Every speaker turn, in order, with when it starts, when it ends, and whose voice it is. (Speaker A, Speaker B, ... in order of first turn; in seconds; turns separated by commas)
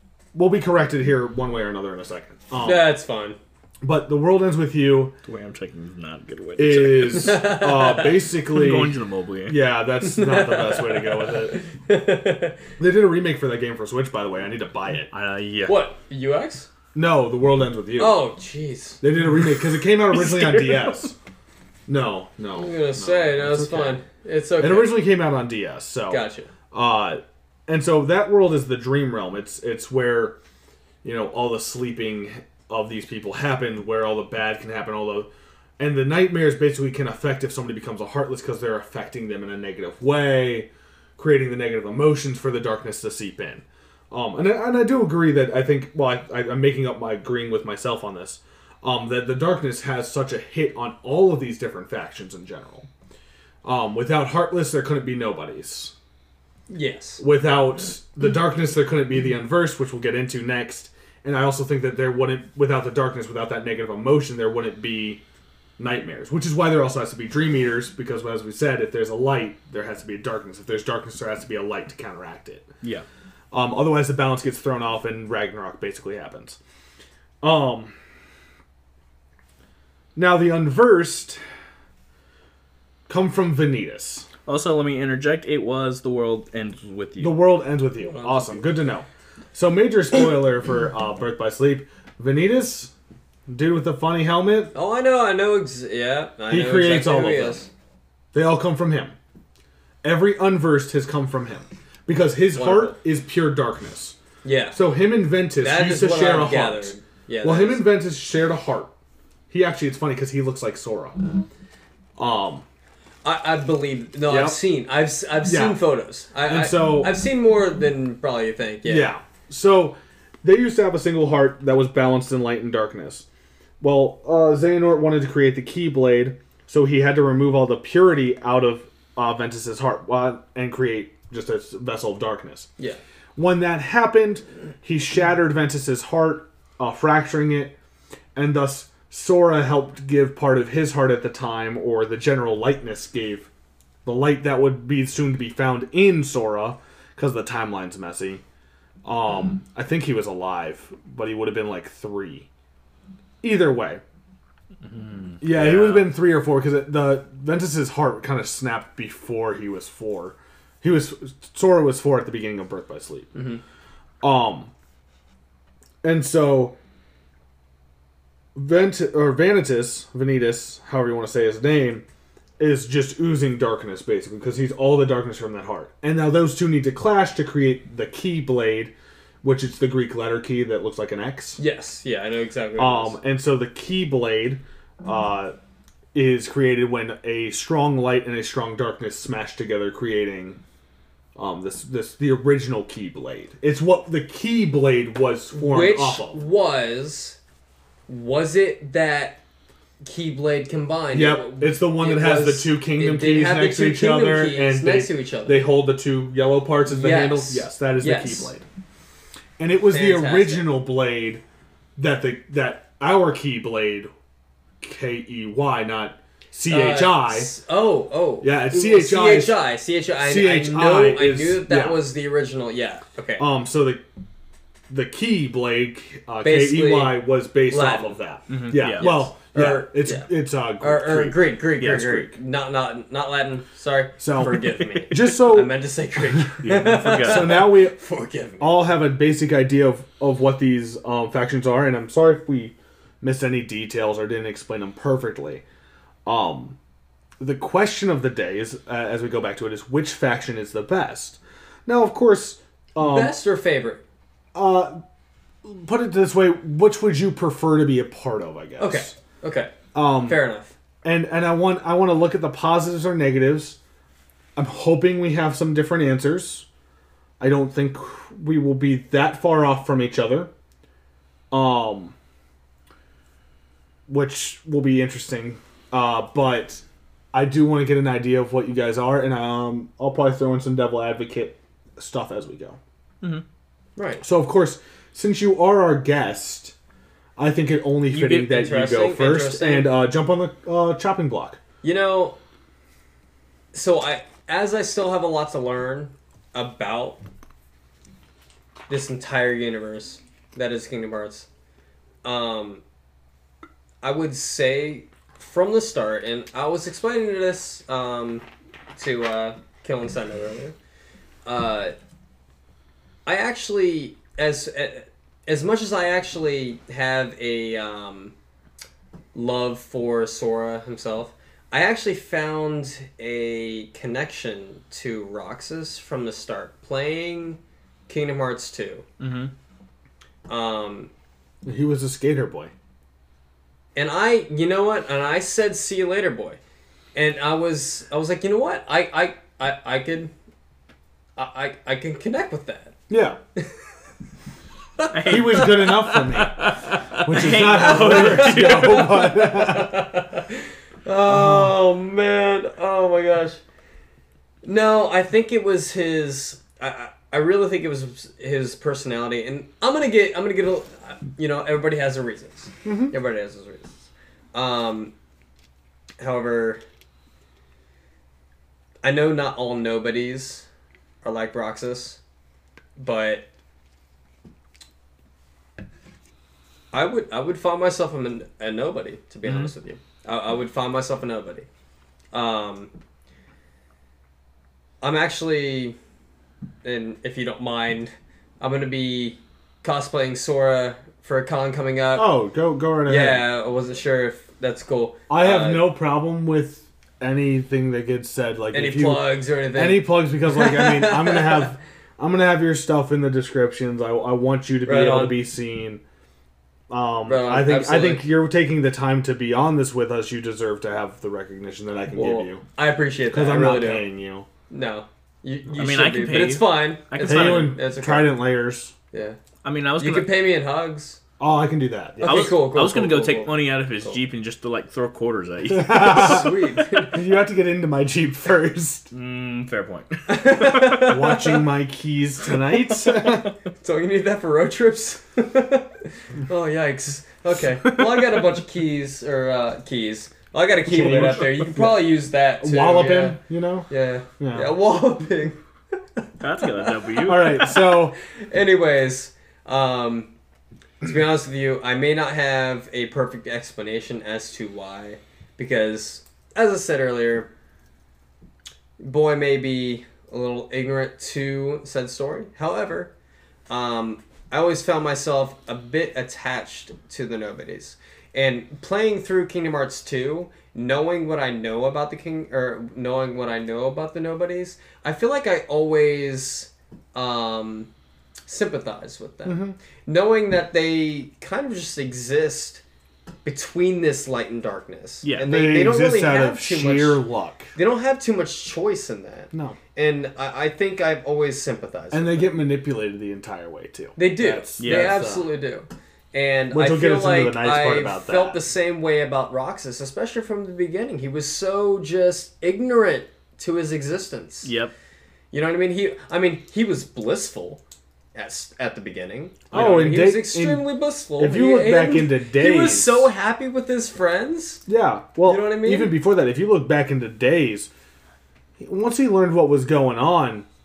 Speaker A: 0.3-2.9, Speaker B: 2.6-3.4, Speaker A: 3.8-5.2, Speaker C: 5.2-7.6, Speaker A: 6.6-11.6, Speaker B: 7.1-8.1, Speaker C: 8.3-9.6, Speaker B: 10.0-12.6, Speaker A: 12.8-15.1, Speaker C: 15.1-15.8, Speaker B: 15.7-16.7, Speaker A: 16.9-18.2, Speaker B: 18.0-19.0, Speaker A: 19.0-21.1, Speaker C: 20.1-21.1, Speaker A: 21.9-24.0, Speaker B: 22.6-25.0, Speaker A: 24.6-30.4, Speaker B: 26.1-26.5, Speaker A: 31.0-52.9, Speaker A: 53.6-55.9, Speaker B: 56.7-57.2, Speaker A: 57.2-65.2, Speaker A: 65.8-72.7, Speaker A: 73.5-76.6, Speaker A: 77.4-78.0, Speaker A: 80.2-81.4, Speaker A: 83.1-84.3, Speaker C: 84.5-87.4, Speaker A: 87.2-92.9, Speaker B: 88.0-88.7, Speaker A: 93.5-94.7, Speaker B: 94.7-97.7, Speaker A: 96.5-97.6, Speaker A: 98.3-99.2, Speaker A: 100.0-104.2, Speaker B: 102.5-103.0, Speaker B: 104.4-104.8, Speaker A: 104.7-108.9, Speaker B: 105.6-107.9, Speaker A: 109.5-111.4, Speaker A: 112.2-112.7, Speaker B: 113.2-119.1, Speaker A: 114.3-114.6, Speaker A: 115.4-115.8, Speaker A: 116.4-117.2, Speaker A: 118.8-123.3, Speaker A: 123.8-132.7, Speaker A: 133.4-137.8, Speaker A: 138.3-143.5, Speaker A: 144.1-148.4, Speaker A: 149.0-152.5, Speaker A: 153.4-154.0, Speaker C: 154.8-156.1, Speaker A: 155.4-163.3, Speaker B: 163.3-163.6, Speaker A: 164.2-164.7, Speaker A: 166.0-166.8, Speaker A: 168.6-172.0, Speaker A: 172.6-181.6, Speaker B: 181.6-183.2, Speaker A: 182.8-185.6, Speaker A: 186.1-190.6, Speaker A: 191.4-196.4, Speaker B: 195.5-197.4, Speaker B: 198.1-199.4, Speaker B: 200.0-205.7, Speaker A: 201.1-208.7, Speaker B: 206.9-208.5, Speaker A: 209.6-211.4, Speaker B: 209.9-210.7, Speaker A: 212.0-214.1, Speaker A: 214.8-217.5, Speaker B: 216.7-223.5, Speaker A: 218.4-219.6, Speaker A: 220.2-222.0, Speaker A: 223.4-224.0, Speaker A: 224.9-232.3, Speaker B: 226.4-228.2, Speaker C: 228.5-229.2, Speaker B: 228.8-238.7, Speaker A: 234.2-235.7, Speaker C: 234.4-235.3, Speaker C: 236.6-237.7, Speaker A: 236.6-238.0, Speaker A: 238.6-245.6, Speaker A: 246.3-246.8, Speaker A: 247.4-253.4, Speaker B: 253.0-254.0, Speaker A: 254.5-255.0, Speaker A: 255.6-259.1, Speaker B: 258.8-260.7, Speaker A: 259.9-260.4, Speaker A: 261.0-263.8, Speaker A: 264.6-266.7, Speaker A: 267.4-270.5, Speaker A: 271.5-272.1, Speaker A: 274.1-282.8, Speaker B: 284.0-284.2, Speaker A: 284.2-286.7, Speaker A: 287.4-291.6, Speaker B: 288.1-290.0, Speaker B: 291.8-292.4, Speaker B: 293.7-297.2, Speaker B: 298.9-301.5, Speaker B: 302.2-302.8, Speaker B: 304.0-310.8, Speaker B: 311.4-311.9, Speaker B: 313.3-318.3, Speaker B: 319.3-329.1, Speaker C: 329.2-329.5, Speaker B: 330.5-331.1, Speaker A: 331.6-332.7, Speaker B: 333.9-336.6, Speaker B: 337.1-340.3, Speaker B: 341.4-343.0, Speaker A: 343.1-343.4, Speaker B: 345.0-345.5, Speaker C: 345.1-349.2, Speaker A: 345.2-350.1, Speaker B: 347.5-353.6, Speaker A: 351.3-351.8, Speaker B: 354.6-365.1, Speaker A: 362.9-363.1, Speaker B: 366.2-366.8, Speaker B: 369.0-370.7, Speaker B: 371.2-372.2, Speaker B: 373.0-373.5, Speaker B: 376.9-381.7, Speaker C: 379.4-379.7, Speaker B: 382.3-382.9, Speaker B: 385.0-386.0, Speaker B: 386.8-392.4, Speaker A: 392.1-393.5, Speaker B: 393.1-395.9, Speaker A: 395.3-406.0, Speaker B: 398.7-401.7, Speaker B: 404.9-405.4, Speaker A: 406.9-412.6, Speaker B: 407.3-408.3, Speaker B: 412.1-414.1, Speaker A: 413.3-414.5, Speaker B: 414.7-418.4, Speaker C: 415.8-417.8, Speaker A: 417.2-418.9, Speaker B: 419.1-419.4, Speaker C: 419.6-420.4, Speaker B: 420.0-421.2, Speaker A: 421.4-422.6, Speaker B: 422.2-424.2, Speaker C: 422.2-426.5, Speaker A: 425.7-429.1, Speaker B: 426.0-427.2, Speaker C: 429.1-431.2, Speaker B: 430.3-431.6, Speaker A: 431.0-433.5, Speaker C: 433.2-433.5, Speaker B: 433.8-445.6, Speaker A: 440.9-443.9, Speaker A: 444.4-444.7, Speaker B: 446.2-446.9, Speaker C: 446.4-447.8, Speaker A: 447.2-448.1, Speaker B: 447.6-450.3, Speaker B: 451.0-457.5, Speaker B: 459.0-463.1, Speaker B: 463.7-477.9, Speaker B: 478.5-482.8, Speaker A: 479.4-479.8, Speaker B: 483.4-487.2, Speaker C: 485.2-485.5, Speaker A: 485.4-487.7, Speaker B: 487.8-492.5, Speaker A: 489.5-489.8, Speaker A: 492.1-495.5, Speaker B: 494.2-504.7, Speaker C: 494.8-495.2, Speaker A: 496.7-498.6, Speaker C: 504.6-504.9, Speaker B: 505.5-507.8, Speaker B: 508.4-514.8, Speaker A: 509.7-513.3, Speaker C: 509.7-510.2, Speaker A: 514.9-517.9, Speaker B: 515.5-516.2, Speaker A: 518.8-520.7